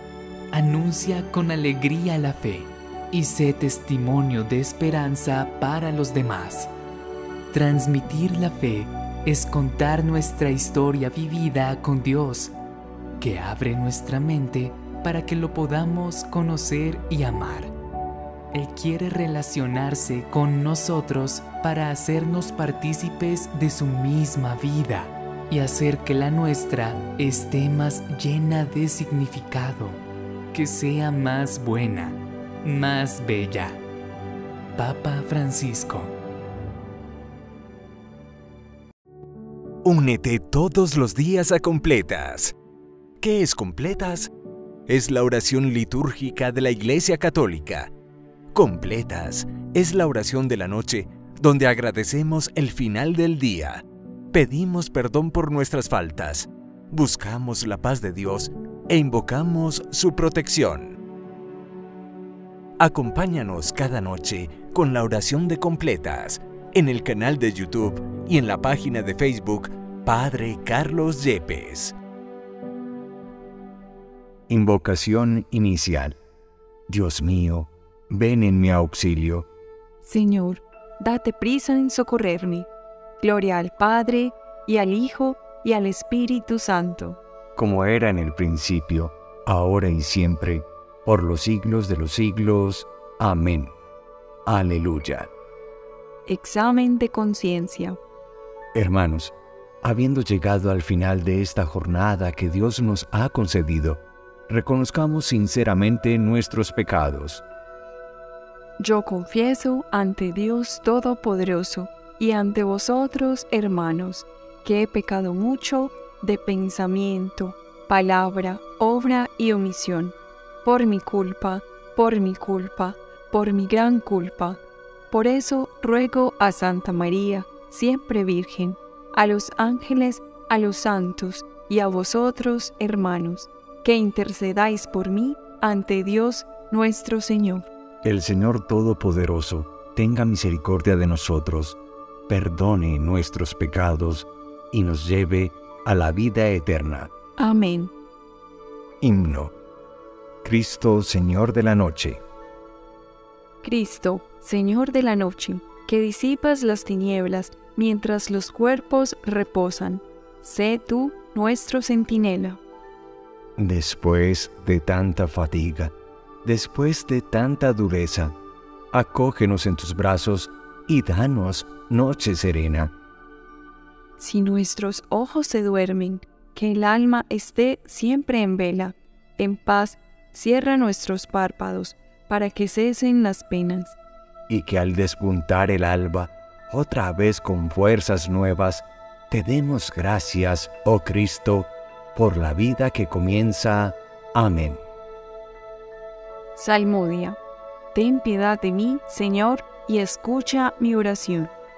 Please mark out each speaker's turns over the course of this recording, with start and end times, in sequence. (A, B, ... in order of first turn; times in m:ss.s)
0:00.5-0:06.7 A
0:07.5-0:12.5 A
0:13.2-0:17.7 A
0:18.5-0:33.8 A
0:34.7-0:36.1 A
0:39.8-0:42.5 B
0:43.2-0:44.3 B
0:44.9-0:47.9 B
0:48.5-1:01.0 B
1:02.8-1:12.0 B
1:14.5-1:16.2 B
1:16.9-1:19.5 B
1:20.0-1:22.7 C
1:23.2-1:27.2 C
1:27.6-1:33.7 B
1:34.4-1:35.3 B
1:36.2-1:38.0 C
1:38.7-1:47.4 B
1:48.8-2:17.7 C
2:18.0-2:27.1 B
2:27.4-2:27.9 C
2:29.0-2:29.5 B
2:30.4-2:32.2 B
2:33.6-2:42.6 C
2:43.6-2:45.9 B
2:46.4-2:48.3 B
2:48.9-2:52.9 B
2:54.2-3:04.0 C
3:04.5-3:14.8 B
3:16.6-3:17.4 C
3:17.9-3:21.5 C